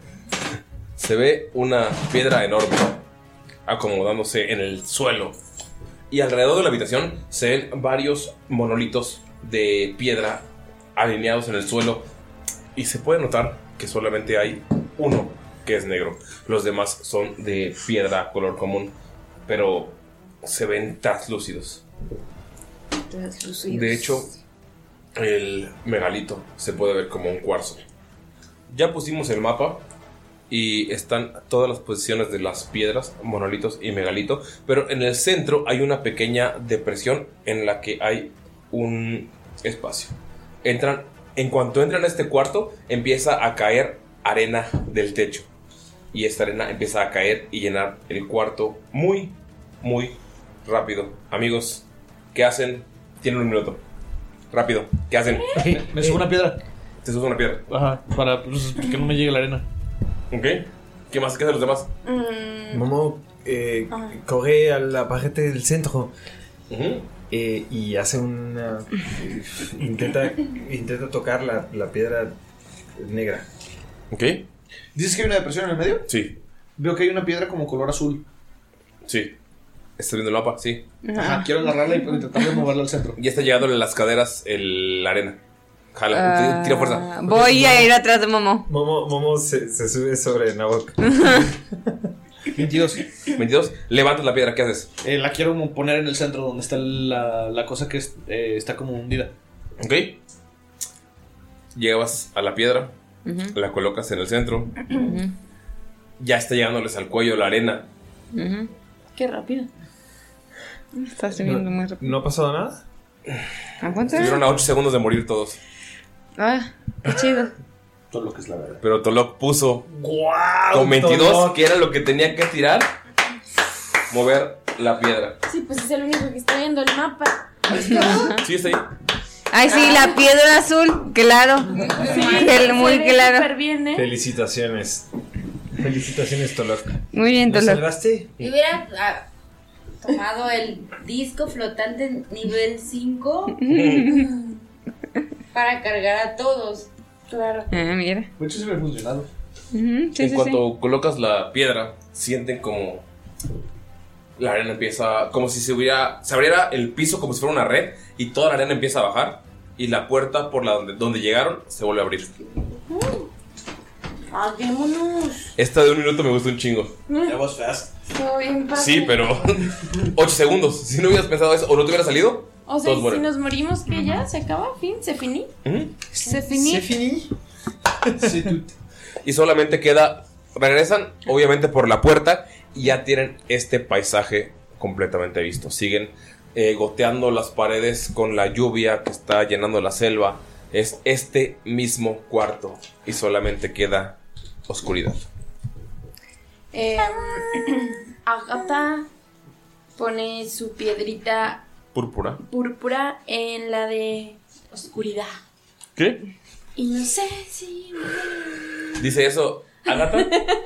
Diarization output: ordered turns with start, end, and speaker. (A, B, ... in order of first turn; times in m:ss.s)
0:01.0-0:03.0 A
0:03.7-0:05.4 A
0:06.1-0:12.1 A
0:12.8-0:18.9 A
0:19.5-0:21.8 A
0:23.1-0:24.3 B
0:23.7-0:24.3 A
0:25.2-0:27.8 A
0:28.7-0:29.8 A
0:30.5-0:45.5 A
0:46.1-0:53.8 A
0:54.5-0:55.4 A
0:55.6-0:56.3 C
0:55.7-0:56.6 D
0:57.0-0:57.7 A
0:57.7-0:59.6 D
1:00.3-1:01.9 A
1:02.0-1:02.9 E
1:02.7-1:06.1 C
1:03.9-1:04.2 E
1:06.7-1:07.1 A
1:07.3-1:12.4 C
1:13.0-1:13.5 C
1:14.1-1:14.4 A
1:15.0-1:16.1 D
1:16.1-1:16.4 A
1:16.8-1:18.2 D
1:19.1-1:19.4 A
1:20.0-1:20.8 A
1:21.1-1:21.5 B
1:21.1-1:23.2 D
1:23.2-1:25.4 A
1:25.9-1:27.1 A
1:26.1-1:28.7 B
1:27.3-1:27.9 C
1:28.7-1:32.0 C
1:31.0-1:31.5 B
1:32.5-1:33.1 D
1:33.4-1:34.9 A
1:35.0-1:39.3 D
1:39.8-1:40.2 A
1:41.7-1:42.9 A
1:43.3-1:43.5 B
1:43.5-1:44.9 A
1:45.0-1:45.3 B
1:46.2-1:47.9 A
1:48.3-1:48.7 B
1:49.2-1:49.7 E
1:51.0-1:52.1 B
1:51.4-1:52.8 C
1:53.8-1:54.4 B
1:54.1-1:55.6 A
1:56.4-1:57.5 B
1:58.1-1:58.8 D
1:58.8-1:59.9 A
1:59.9-2:01.6 C
2:00.7-2:02.9 A
2:04.1-2:05.4 A
2:05.5-2:08.2 E
2:07.9-2:08.3 D
2:07.9-2:08.3 B
2:08.4-2:08.8 A
2:09.5-2:13.5 B
2:09.7-2:10.2 E
2:11.8-2:14.1 E
2:12.2-2:12.4 F
2:13.9-2:15.1 C
2:15.8-2:18.3 C
2:17.1-2:17.9 B
2:18.4-2:19.3 F
2:20.0-2:23.6 F
2:23.6-2:24.3 B
2:23.7-2:24.1 A
2:25.5-2:26.9 F
2:27.3-2:27.7 E
2:27.7-2:28.3 B
2:28.4-2:29.3 D
2:29.7-2:30.6 B
2:30.2-2:33.0 A
2:34.4-2:42.3 A
2:42.9-2:43.3 E
2:44.3-2:45.5 E
2:45.6-2:46.9 A
2:47.1-2:47.4 E
2:47.2-2:47.9 D
2:48.1-2:49.4 E
2:48.7-2:53.3 A
2:52.7-2:55.5 E
2:55.6-2:56.0 A
2:56.2-2:56.9 E
2:56.2-2:56.6 B
2:56.5-2:57.3 C
2:58.0-2:58.6 C
2:58.2-2:58.7 D
2:59.2-3:15.2 A
3:16.7-3:19.1 E
3:20.0-3:21.7 E
3:21.9-3:22.4 A
3:22.4-3:25.3 E
3:26.0-3:26.2 A
3:26.8-3:29.0 E
3:29.0-3:30.3 A
3:30.1-3:30.5 E